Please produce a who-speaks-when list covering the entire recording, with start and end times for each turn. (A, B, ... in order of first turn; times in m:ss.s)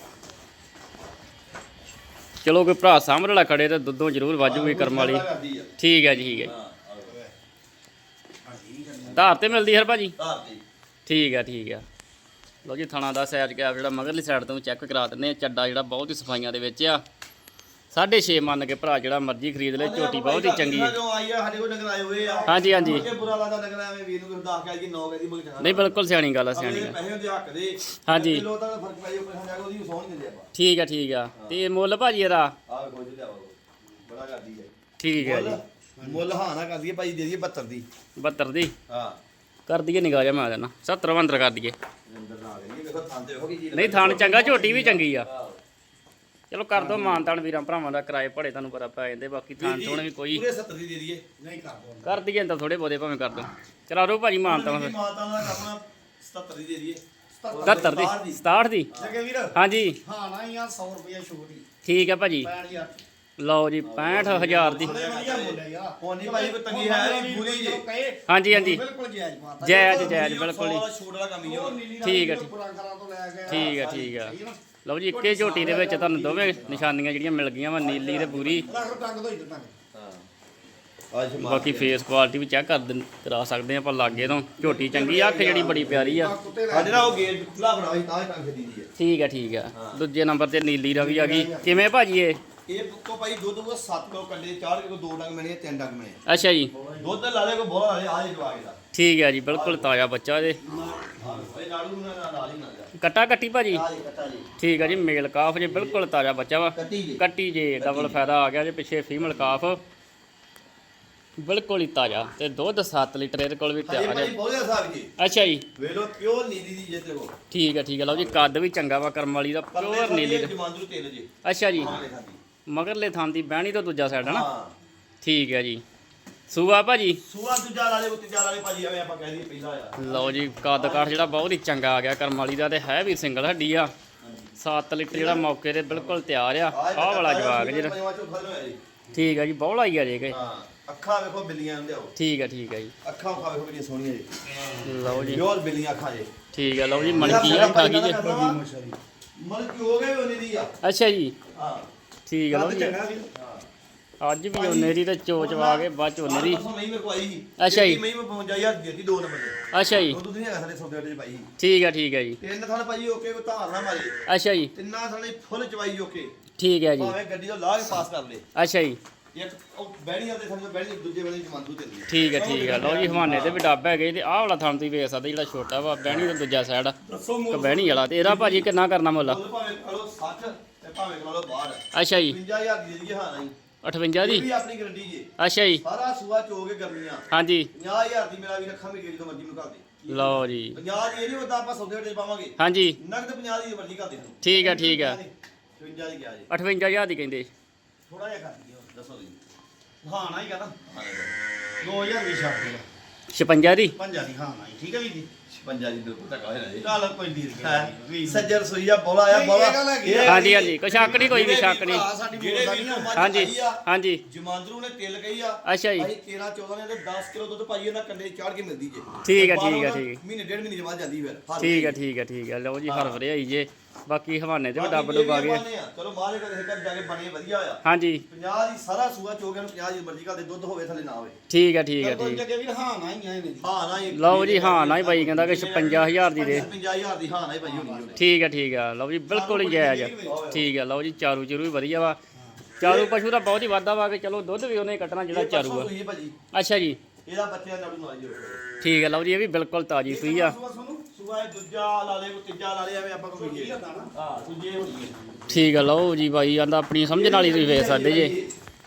0:02.4-0:05.2 A
0:04.4-0:07.1 B
0:05.8-0:06.5 A
0:07.0-0:07.3 C
0:08.4-0:09.2 C
0:09.1-0:10.1 A
0:10.2-0:10.6 B
0:11.0-0:11.8 A
0:12.6-0:17.0 A
0:17.9-0:21.0 A
0:19.7-0:26.0 B
0:22.2-0:23.2 C
0:22.5-0:23.0 A
0:25.6-0:27.0 A
0:26.5-0:30.5 B
0:28.0-0:28.4 A
0:30.5-0:32.5 A
0:32.7-0:37.8 B
0:35.0-0:35.6 A
0:36.0-0:36.2 C
0:38.2-0:38.7 A
0:38.9-0:39.2 B
0:39.7-0:41.7 A
0:42.1-0:45.6 B
0:43.7-0:45.3 A
0:46.5-0:50.4 A
0:46.7-0:47.2 C
0:49.6-0:51.2 B
0:51.4-0:52.2 C
0:52.0-0:54.9 A
0:54.4-0:58.4 B
0:57.3-0:58.0 C
0:57.6-0:58.9 A
0:58.9-0:59.2 B
0:59.0-1:01.6 C
0:59.5-1:00.0 A
1:01.8-1:02.5 A
1:02.4-1:03.0 C
1:03.4-1:05.0 A
1:03.8-1:07.8 B
1:04.8-1:10.2 C
1:08.3-1:08.8 A
1:09.6-1:11.8 B
1:09.6-1:10.8 A
1:11.4-1:14.6 C
1:12.0-1:12.5 A
1:13.4-1:14.2 B
1:13.5-1:18.6 A
1:15.1-1:16.9 B
1:15.4-1:16.1 C
1:17.8-1:19.0 B
1:18.7-1:19.7 C
1:19.9-1:20.2 B
1:21.1-1:22.0 B
1:21.4-1:26.3 A
1:24.4-1:28.9 B
1:26.2-1:27.2 C
1:29.0-1:32.4 A
1:29.7-1:30.0 B
1:30.9-1:31.8 C
1:32.7-1:36.2 B
1:36.3-1:36.7 A
1:36.7-1:37.2 C
1:37.0-1:38.8 B
1:38.9-1:40.6 A
1:39.5-1:39.9 B
1:40.6-1:41.5 C
1:41.2-1:42.9 B
1:43.0-1:43.8 A
1:43.7-1:44.9 B
1:44.6-1:49.8 A
1:45.6-1:46.0 B
1:46.7-1:47.2 B
1:47.8-1:48.2 B
1:49.2-1:49.6 B
1:51.4-1:54.3 A
1:53.8-1:55.1 B
1:55.2-1:55.6 A
1:55.8-1:57.4 B
1:57.5-2:00.5 A
1:58.1-1:58.5 B
1:59.7-2:02.4 B
2:01.4-2:01.9 A
2:02.7-2:04.5 A
2:04.2-2:04.7 B
2:05.2-2:05.8 A
2:06.5-2:07.2 A
2:07.2-2:11.3 B
2:10.0-2:13.9 A
2:14.2-2:14.5 B
2:14.6-2:17.9 A
2:15.1-2:16.2 B
2:16.7-2:18.8 B
2:19.1-2:20.4 A
2:20.3-2:22.1 B
2:22.2-2:22.9 A
2:23.0-2:24.3 B
2:24.5-2:25.2 C
2:24.8-2:25.4 A
2:25.2-2:26.3 B
2:26.5-2:28.2 A
2:27.2-2:28.6 B
2:27.2-2:29.0 C
2:29.4-2:30.7 B
2:30.8-2:31.3 A
2:31.5-2:31.9 B
2:32.3-2:32.9 A
2:32.5-2:33.3 C
2:33.3-2:33.7 B
2:34.2-2:36.6 A
2:34.5-2:41.5 B
2:37.6-2:38.0 A
2:39.7-2:40.2 A
2:41.6-2:42.4 A
2:42.4-2:44.1 B
2:44.3-2:44.7 A
2:44.7-2:46.3 B
2:46.6-2:47.1 A
2:47.0-2:48.4 B
2:48.6-2:49.0 A
2:49.3-2:53.6 B
2:52.1-2:56.9 A
2:57.0-2:58.7 B
2:57.5-2:59.4 A
2:59.2-3:03.5 B
3:01.9-3:02.4 A
3:03.8-3:04.4 A
3:04.2-3:05.3 B
3:05.4-3:05.8 A
3:05.8-3:14.4 B
3:07.3-3:07.7 A
3:10.1-3:10.8 A
3:12.6-3:13.0 A
3:14.4-3:15.2 A
3:14.5-3:15.3 C
3:15.8-3:16.5 B
3:16.5-3:17.5 A
3:18.1-3:18.9 C
3:18.9-3:19.4 B
3:20.0-3:20.8 C
3:20.8-3:21.4 B
3:21.8-3:22.8 C
3:23.3-3:23.9 A
3:23.9-3:25.3 C
3:25.5-3:26.9 B
3:26.8-3:28.5 C
3:27.6-3:42.0 B
3:29.3-3:30.4 C
3:30.2-3:32.1 A
3:31.8-3:33.2 C
3:33.2-3:34.2 A
3:35.6-3:36.1 A
3:39.2-3:40.2 A
3:41.6-3:45.6 A
3:42.9-3:43.2 B
3:44.7-3:51.4 B
3:47.8-3:48.2 A
3:51.5-3:52.4 A
3:52.0-3:53.7 C
3:53.6-3:58.2 B
3:54.1-3:56.7 A
3:56.3-3:56.7 C
3:57.6-3:58.2 C
3:58.2-4:02.2 A
3:59.3-4:00.4 C
4:00.2-4:00.7 B
4:02.4-4:02.7 C
4:02.8-4:05.9 A
4:02.8-4:03.1 B
4:05.3-4:06.3 B
4:06.5-4:07.0 A
4:07.2-4:08.6 B
4:08.8-4:10.6 A
4:10.1-4:11.0 C
4:11.1-4:15.2 B
4:13.4-4:14.1 C
4:15.5-4:18.3 A
4:17.1-4:18.5 B